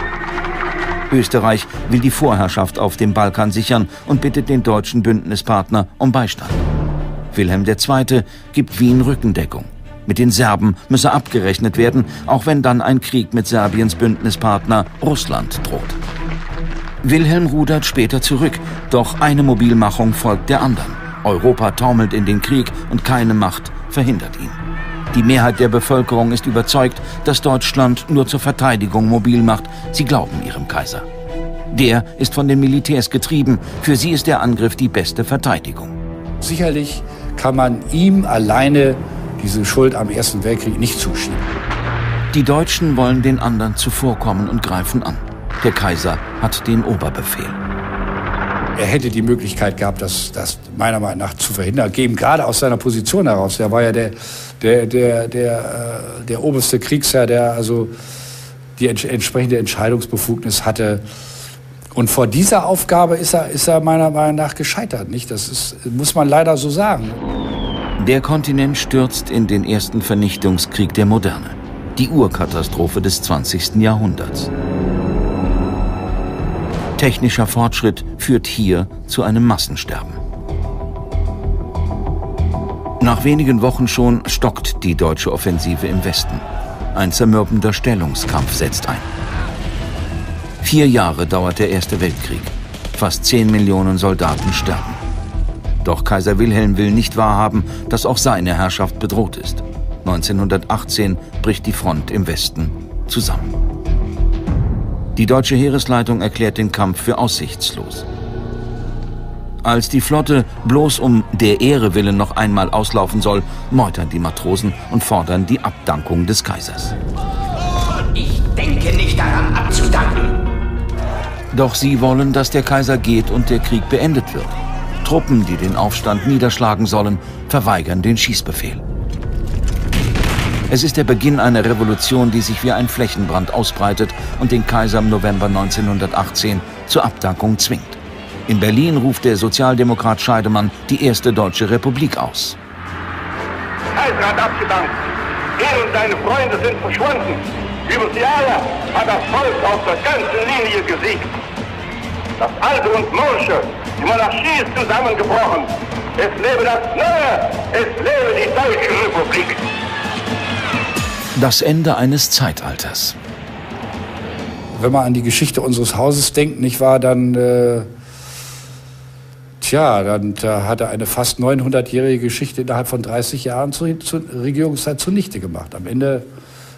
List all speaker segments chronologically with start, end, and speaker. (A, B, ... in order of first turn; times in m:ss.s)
0:01.1-0:06.6 A
0:07.3-0:16.0 A
0:17.0-0:24.6 A
0:25.1-0:31.1 A
0:31.7-0:35.9 A
0:36.4-0:41.5 B
0:42.3-0:47.6 A
0:48.7-0:57.9 B
0:58.8-1:01.0 B
1:01.9-1:07.2 B
1:08.0-1:14.5 A
1:17.0-1:20.2 A
1:23.0-1:29.1 A
1:30.6-1:35.0 A
1:35.8-1:43.5 A
1:45.2-1:48.1 A
1:49.6-1:57.0 A
1:58.2-2:00.3 C
2:01.5-2:08.8 A
2:10.7-2:22.6 A
2:23.9-2:24.9 D
2:25.6-2:31.3 D
2:32.4-2:39.6 D
2:41.4-2:43.2 A
2:44.8-2:47.9 B
2:49.6-2:56.3 B